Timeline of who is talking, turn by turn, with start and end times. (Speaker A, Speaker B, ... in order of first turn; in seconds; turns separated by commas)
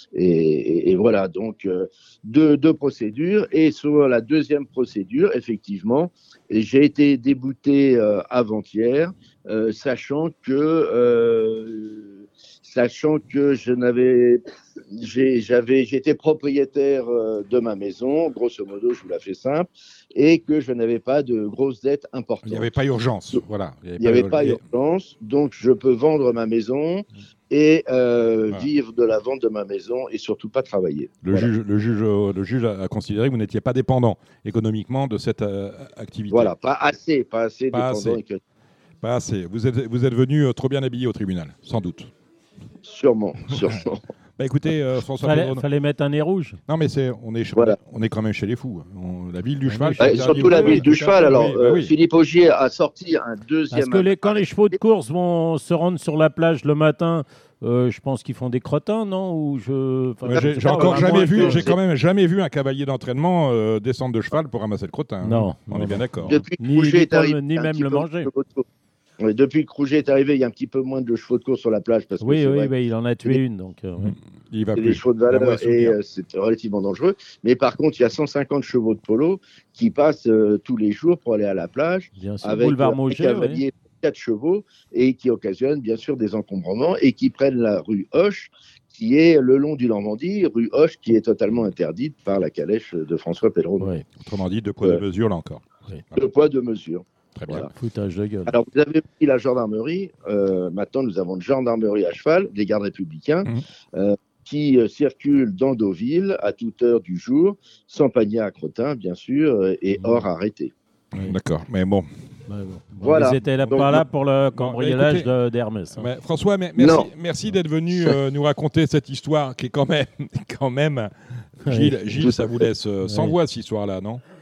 Speaker A: 0.1-22.7, Speaker B: 22.4-24.6, Speaker A: 24.0-31.5, Speaker B: 31.2-36.5, Speaker A: 36.3-38.4, Speaker B: 37.7-38.2, Speaker B: 39.0-42.1, Speaker A: 42.8-44.0, Speaker B: 44.4-45.6, Speaker C: 45.2-46.6, Speaker B: 46.7-51.9, Speaker C: 49.7-51.5, Speaker A: 50.0-54.6, Speaker C: 53.7-61.7, Speaker A: 60.2-61.8, Speaker B: 60.3-66.4, Speaker C: 65.2-68.3, Speaker A: 66.2-68.7, Speaker A: 69.2-72.7, Speaker C: 72.2-74.2, Speaker B: 74.0-76.0, Speaker A: 74.8-93.9, Speaker C: 82.2-83.6, Speaker B: 94.2-96.2, Speaker A: 96.2-97.7, Speaker B: 97.3-97.7, Speaker C: 97.6-98.6, Speaker A: 98.5-110.7, Speaker C: 110.0-110.2, Speaker B: 111.2-112.1, Speaker C: 112.5-116.1, Speaker A: 113.0-114.0, Speaker B: 113.5-114.0, Speaker B: 114.5-115.3, Speaker B: 115.9-124.2, Speaker A: 116.8-117.1, Speaker A: 117.9-118.2, Speaker C: 121.7-122.3, Speaker A: 122.2-122.7, Speaker C: 123.0-123.3